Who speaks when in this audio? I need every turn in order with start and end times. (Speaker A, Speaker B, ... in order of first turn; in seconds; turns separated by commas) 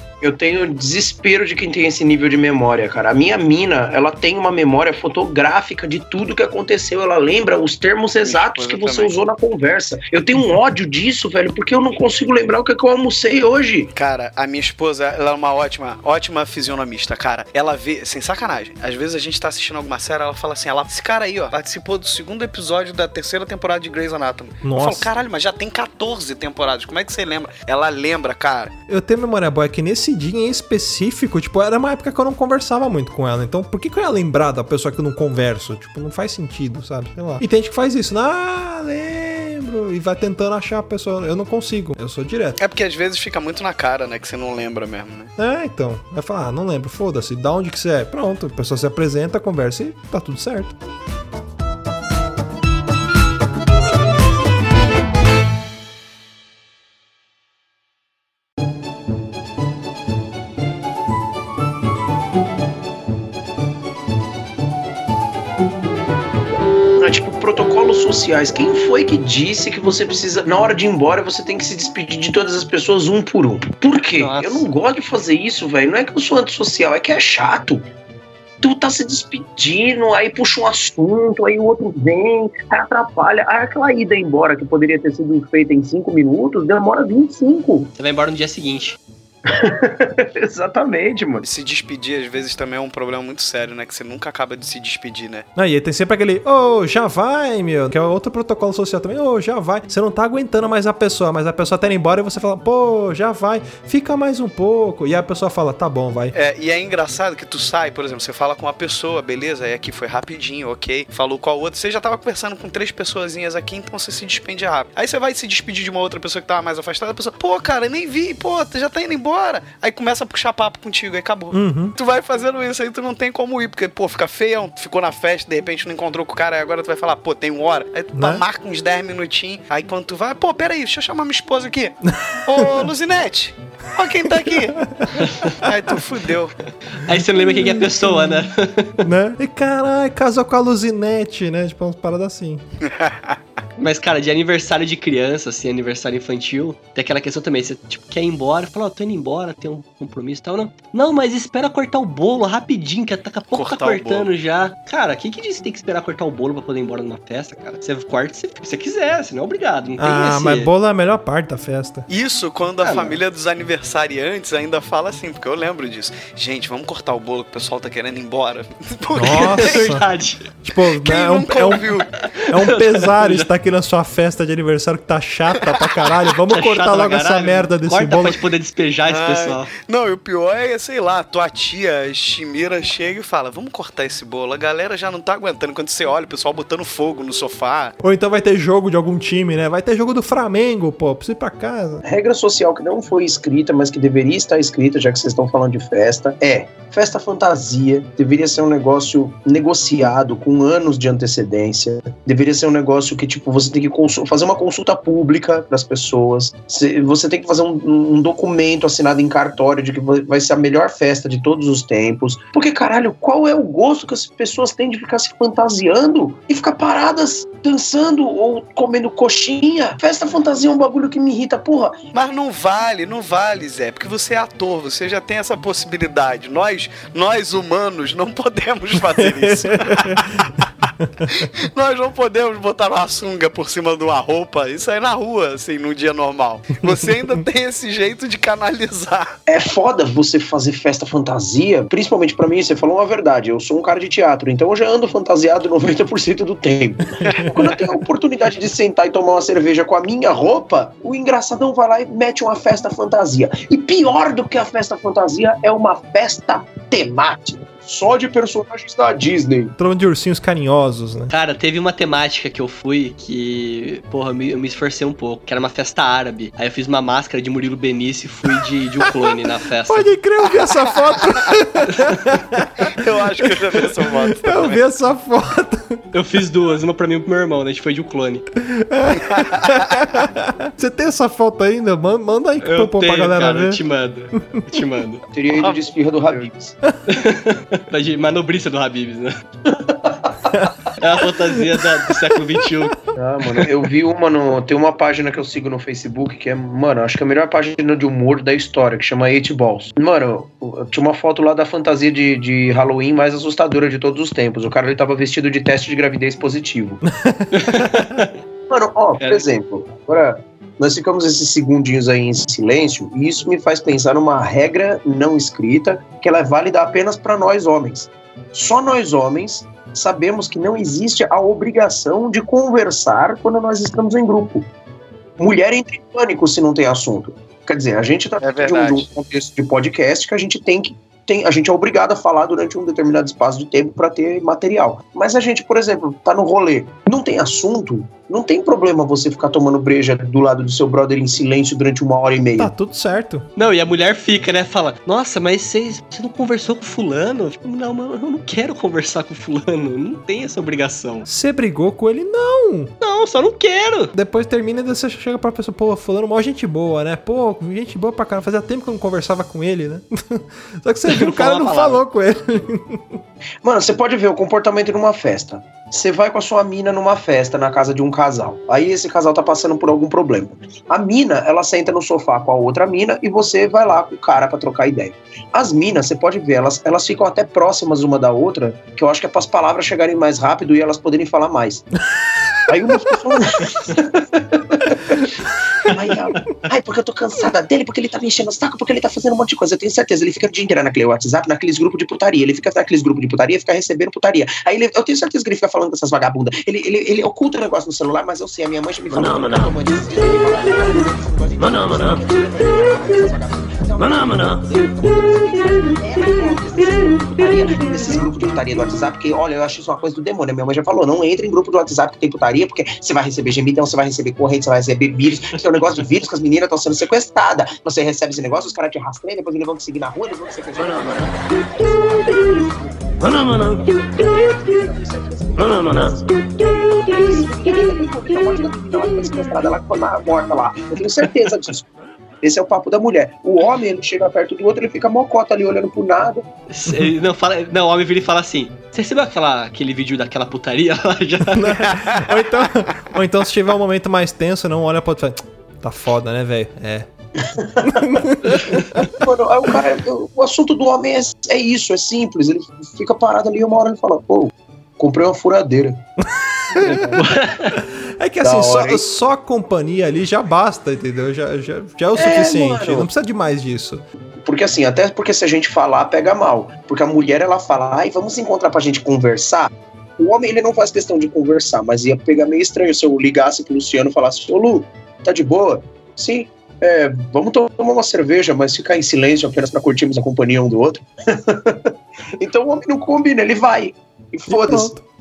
Speaker A: 0.2-13.9, Speaker B: 8.2-9.1, Speaker B: 13.9-28.7, Speaker C: 24.6-25.1, Speaker C: 28.9-42.6, Speaker B: 42.6-45.3, Speaker C: 45.4-50.8, Speaker A: 67.0-77.8, Speaker D: 74.2-74.7, Speaker A: 78.6-87.9, Speaker D: 88.0-89.0, Speaker A: 89.5-91.4, Speaker B: 91.4-95.5, Speaker C: 95.5-106.3, Speaker B: 106.3-136.6, Speaker C: 121.5-121.9, Speaker C: 128.2-128.4, Speaker C: 132.3-132.9, Speaker C: 134.3-135.1, Speaker D: 135.2-135.5, Speaker D: 136.9-139.0, Speaker C: 137.1-138.4, Speaker C: 139.0-142.6, Speaker B: 142.8-143.4, Speaker D: 143.8-160.7, Speaker B: 153.5-154.3, Speaker C: 160.0-162.1, Speaker B: 162.1-169.9, Speaker D: 162.8-163.2, Speaker C: 169.1-170.0, Speaker D: 169.6-170.4, Speaker C: 170.6-171.9, Speaker B: 171.0-172.3, Speaker D: 172.3-173.5, Speaker C: 172.5-178.4, Speaker B: 175.5-176.0, Speaker D: 176.5-179.7, Speaker B: 179.1-187.9, Speaker C: 188.0-192.0, Speaker A: 192.0-221.9, Speaker B: 222.1-239.3, Speaker C: 229.1-231.4, Speaker C: 236.9-237.4, Speaker A: 239.5-259.7, Speaker C: 247.2-247.6, Speaker C: 259.8-261.3, Speaker D: 261.3-270.1, Speaker C: 269.1-272.9, Speaker D: 271.9-272.2, Speaker B: 272.9-274.8, Speaker C: 273.4-276.0, Speaker D: 276.1-278.4, Speaker C: 278.6-283.8, Speaker B: 279.2-280.0, Speaker D: 282.6-285.2, Speaker C: 284.4-284.8, Speaker A: 285.3-286.7, Speaker B: 285.5-286.5, Speaker D: 287.1-289.3, Speaker A: 289.7-290.6, Speaker D: 291.0-292.9, Speaker C: 291.7-293.7, Speaker A: 293.1-307.0, Speaker C: 307.0-307.9, Speaker D: 307.5-308.3, Speaker A: 308.7-324.7, Speaker D: 309.2-309.4, Speaker A: 325.4-342.7, Speaker B: 328.4-329.1, Speaker C: 342.6-343.5, Speaker D: 343.6-351.3, Speaker C: 351.2-352.9, Speaker D: 353.0-354.1, Speaker C: 354.1-363.2, Speaker D: 361.1-362.0, Speaker A: 363.6-381.9, Speaker A: 382.7-385.2, Speaker A: 385.8-431.9, Speaker A: 432.4-436.4, Speaker D: 436.7-441.9, Speaker C: 436.9-437.1, Speaker C: 441.5-447.1, Speaker A: 447.4-448.2, Speaker C: 447.8-449.0, Speaker D: 448.4-449.1, Speaker A: 449.1-456.0, Speaker C: 456.2-457.2, Speaker D: 456.8-457.8, Speaker C: 457.7-464.0, Speaker A: 458.4-459.0, Speaker A: 462.1-463.1, Speaker A: 464.4-484.9, Speaker C: 484.5-485.0